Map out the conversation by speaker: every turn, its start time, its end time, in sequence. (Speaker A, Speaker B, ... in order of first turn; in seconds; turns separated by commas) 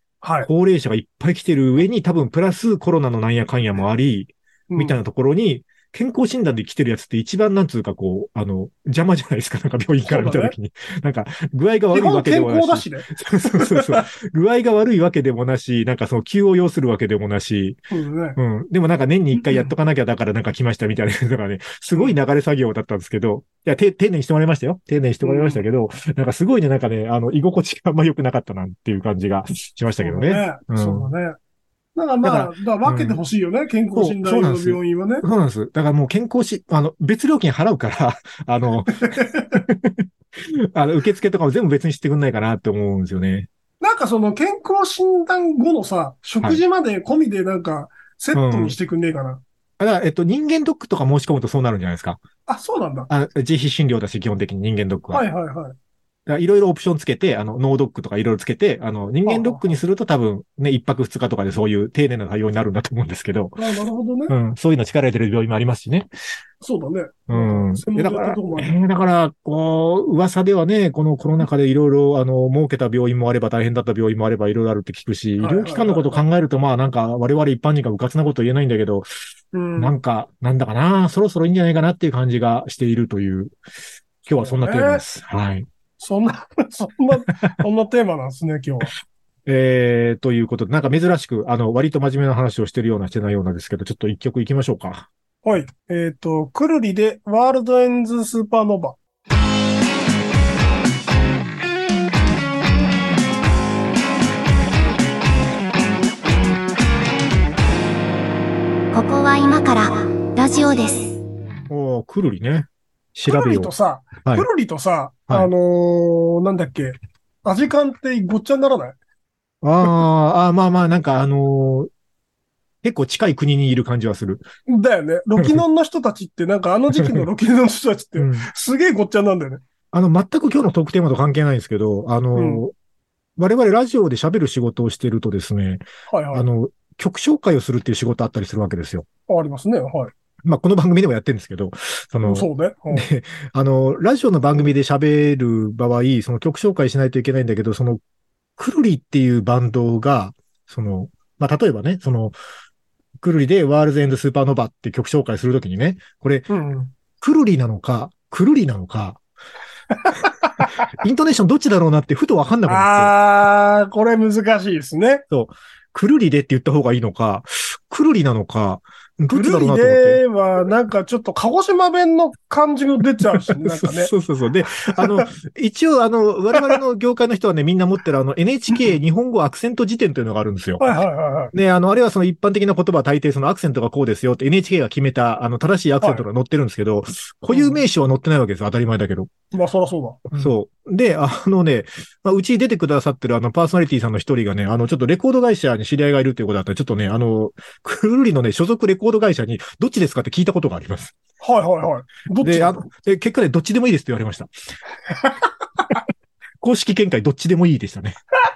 Speaker A: 0.2-0.5, Speaker B: 0.4-17.8, Speaker A: 4.7-5.0, Speaker A: 10.0-10.5, Speaker A: 11.9-14.0, Speaker A: 17.9-18.4, Speaker B: 18.4-31.1, Speaker A: 19.4-19.7, Speaker A: 25.2-25.6, Speaker A: 30.0-31.4, Speaker A: 31.9-35.2, Speaker B: 32.2-33.2, Speaker B: 33.9-43.5, Speaker A: 39.0-39.6, Speaker A: 43.8-49.4, Speaker B: 48.3-48.8, Speaker B: 49.8-52.2, Speaker A: 52.5-53.1, Speaker B: 53.1-55.2, Speaker A: 55.1-55.7, Speaker B: 56.3-63.6, Speaker A: 59.2-59.8, Speaker A: 63.6-64.3, Speaker B: 64.3-66.1, Speaker A: 66.6-68.7, Speaker B: 67.3-79.1, Speaker A: 75.4-76.2, Speaker A: 79.5-80.0, Speaker B: 79.8-83.5, Speaker B: 84.2-85.7, Speaker A: 84.4-85.0, Speaker A: 86.0-88.9, Speaker B: 89.5-95.1, Speaker A: 95.4-99.0, Speaker C: 108.9-111.2, Speaker B: 111.7-113.7, Speaker A: 113.3-119.0, Speaker B: 119.6-121.9, Speaker B: 122.8-124.5, Speaker A: 124.7-129.6, Speaker B: 127.0-127.2, Speaker B: 128.2-128.5, Speaker B: 129.9-132.7, Speaker A: 132.3-132.6, Speaker B: 133.4-139.1, Speaker A: 136.1-136.5, Speaker A: 139.3-140.1, Speaker B: 140.4-148.0, Speaker A: 142.2-143.1, Speaker B: 148.6-152.3, Speaker B: 153.2-156.5, Speaker A: 156.5-156.9, Speaker B: 157.2-159.2, Speaker A: 159.9-160.8, Speaker B: 160.9-163.1, Speaker A: 162.7-165.2, Speaker B: 165.3-170.2, Speaker A: 169.3-174.1, Speaker B: 173.5-180.9, Speaker A: 174.9-175.3, Speaker A: 180.8-181.5, Speaker B: 181.5-189.3, Speaker A: 187.5-187.8, Speaker A: 189.5-190.5, Speaker B: 190.3-201.1, Speaker A: 201.4-202.8, Speaker B: 202.4-204.5, Speaker A: 205.1-205.8, Speaker B: 206.6-208.2